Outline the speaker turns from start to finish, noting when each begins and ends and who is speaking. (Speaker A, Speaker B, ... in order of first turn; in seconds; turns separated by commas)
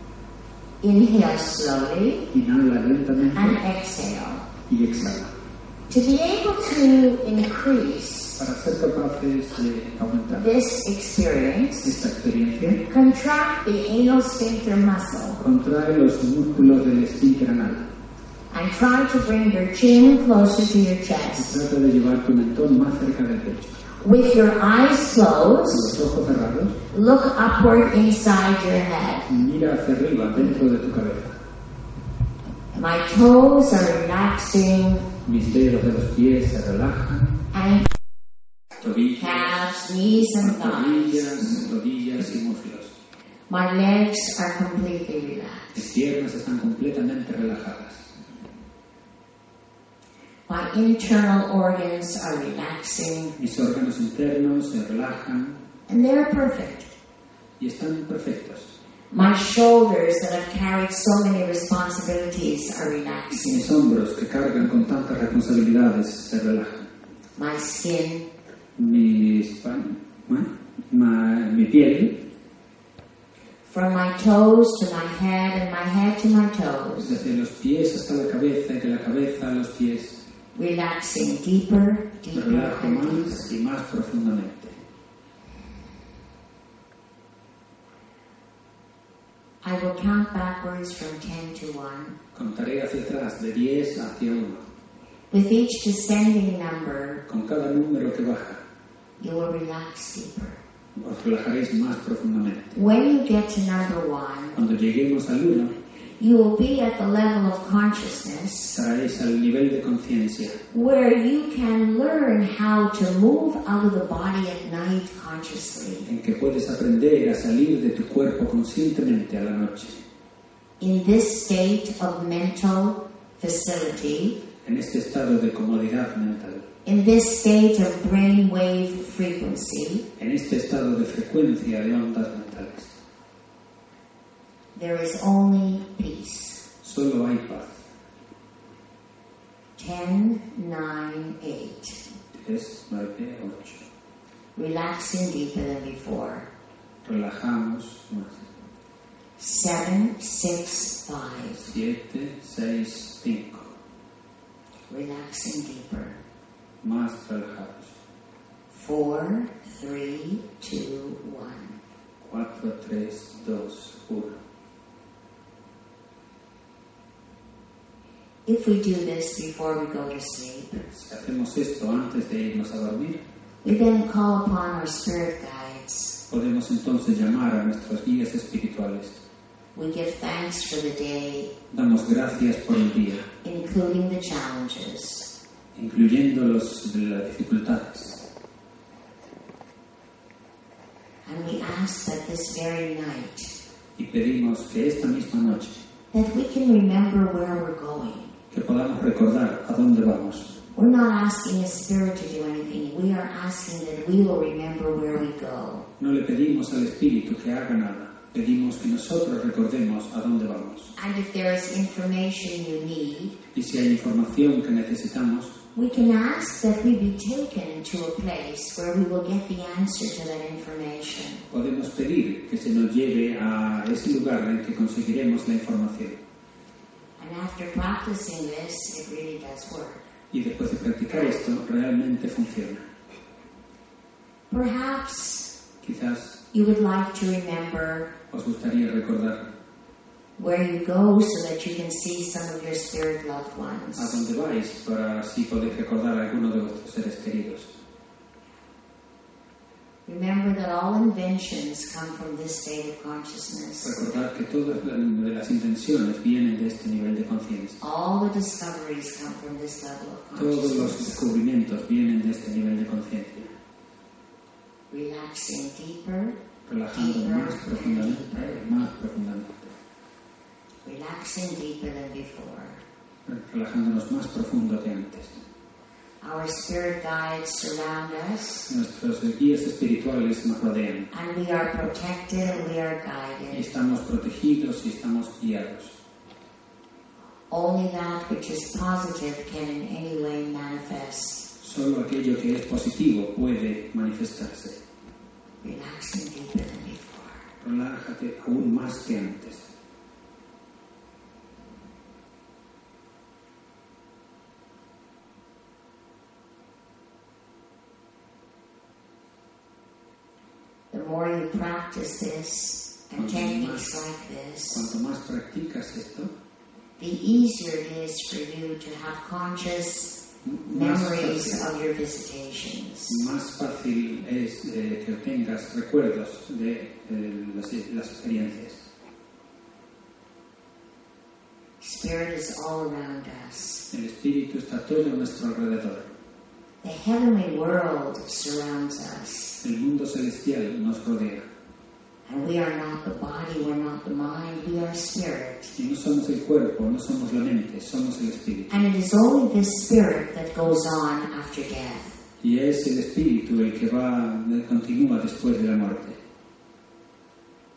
Speaker A: 0.8-2.3, Speaker B: 2.3-3.6, Speaker A: 3.3-4.5, Speaker B: 4.7-5.3, Speaker A: 5.9-8.4, Speaker B: 8.4-10.5, Speaker A: 10.3-12.0, Speaker B: 11.8-12.8, Speaker A: 12.9-15.4, Speaker B: 15.4-17.9, Speaker A: 18.5-21.6, Speaker B: 21.4-23.8, Speaker A: 24.0-25.9, Speaker B: 25.7-26.8, Speaker A: 26.9-29.3, Speaker B: 29.3-31.4, Speaker A: 32.7-35.1, Speaker B: 35.2-37.4, Speaker A: 37.5-37.9, Speaker B: 38.8-42.9, Speaker A: 39.2-41.5, Speaker A: 43.5-45.9, Speaker B: 45.8-48.1, Speaker A: 50.5-53.4, Speaker B: 53.4-55.6, Speaker A: 55.9-56.9, Speaker B: 57.6-58.7, Speaker A: 59.1-63.7, Speaker B: 63.3-66.9, Speaker A: 67.4-68.3, Speaker B: 68.8-72.2, Speaker A: 73.7-77.2, Speaker B: 77.0-80.2, Speaker A: 80.5-83.5, Speaker B: 82.3-84.8, Speaker A: 89.6-92.2, Speaker B: 92.3-94.7, Speaker A: 95.3-97.2, Speaker B: 97.3-98.6, Speaker A: 99.2-100.6, Speaker B: 101.0-102.8, Speaker A: 102.8-104.6, Speaker B: 104.5-105.8, Speaker A: 106.2-108.8, Speaker B: 108.7-110.6, Speaker A: 110.7-116.1, Speaker B: 116.0-120.0, Speaker A: 120.8-124.4, Speaker B: 124.6-126.7, Speaker A: 126.8-130.1, Speaker B: 130.2-132.9, Speaker A: 134.8-136.6, Speaker B: 136.8-137.8, Speaker A: 139.8-142.0, Speaker B: 142.3-143.8, Speaker A: 144.6-146.5, Speaker B: 147.0-148.5, Speaker A: 149.4-151.6, Speaker B: 151.6-153.7, Speaker A: 154.9-156.2, Speaker B: 156.8-157.9, Speaker A: 158.7-161.8, Speaker B: 162.2-164.4, Speaker A: 168.5-170.9, Speaker B: 170.9-173.2, Speaker A: 173.6-176.2, Speaker B: 176.3-179.2, Speaker A: 179.8-181.5, Speaker B: 181.7-183.3, Speaker A: 183.4-185.3, Speaker B: 185.7-188.2, Speaker A: 191.2-193.5, Speaker B: 194.0-195.8, Speaker A: 196.1-198.3, Speaker B: 198.5-200.5, Speaker A: 200.7-205.9, Speaker B: 206.0-210.9, Speaker A: 211.0-213.4, Speaker B: 213.5-215.6, Speaker A: 215.8-221.4, Speaker B: 221.5-226.2, Speaker A: 227.2-230.1, Speaker B: 230.3-232.8, Speaker A: 234.5-235.5, Speaker B: 235.8-236.4, Speaker A: 236.5-238.1, Speaker B: 238.3-239.5, Speaker A: 240.4-244.2, Speaker B: 244.0-247.7, Speaker A: 250.1-254.0, Speaker B: 253.8-257.8, Speaker A: 257.8-261.2, Speaker B: 260.4-263.5, Speaker A: 264.9-266.4, Speaker B: 266.7-269.7, Speaker A: 266.9-268.8, Speaker A: 270.8-272.8, Speaker B: 273.3-275.4, Speaker A: 276.2-278.7, Speaker B: 278.7-281.1, Speaker A: 281.1-283.7, Speaker B: 283.5-285.9, Speaker A: 287.5-291.5, Speaker B: 291.6-294.8, Speaker A: 295.6-297.4, Speaker B: 297.6-299.7, Speaker A: 310.9-314.9, Speaker B: 313.1-313.9, Speaker B: 314.7-316.3, Speaker A: 317.0-320.2, Speaker B: 320.4-321.6, Speaker A: 320.7-323.2, Speaker B: 323.1-328.9, Speaker A: 331.8-333.9, Speaker B: 333.9-336.1, Speaker A: 336.8-339.6, Speaker B: 339.6-341.5, Speaker A: 342.3-345.8, Speaker B: 345.8-348.7, Speaker A: 348.7-352.2, Speaker B: 352.4-356.2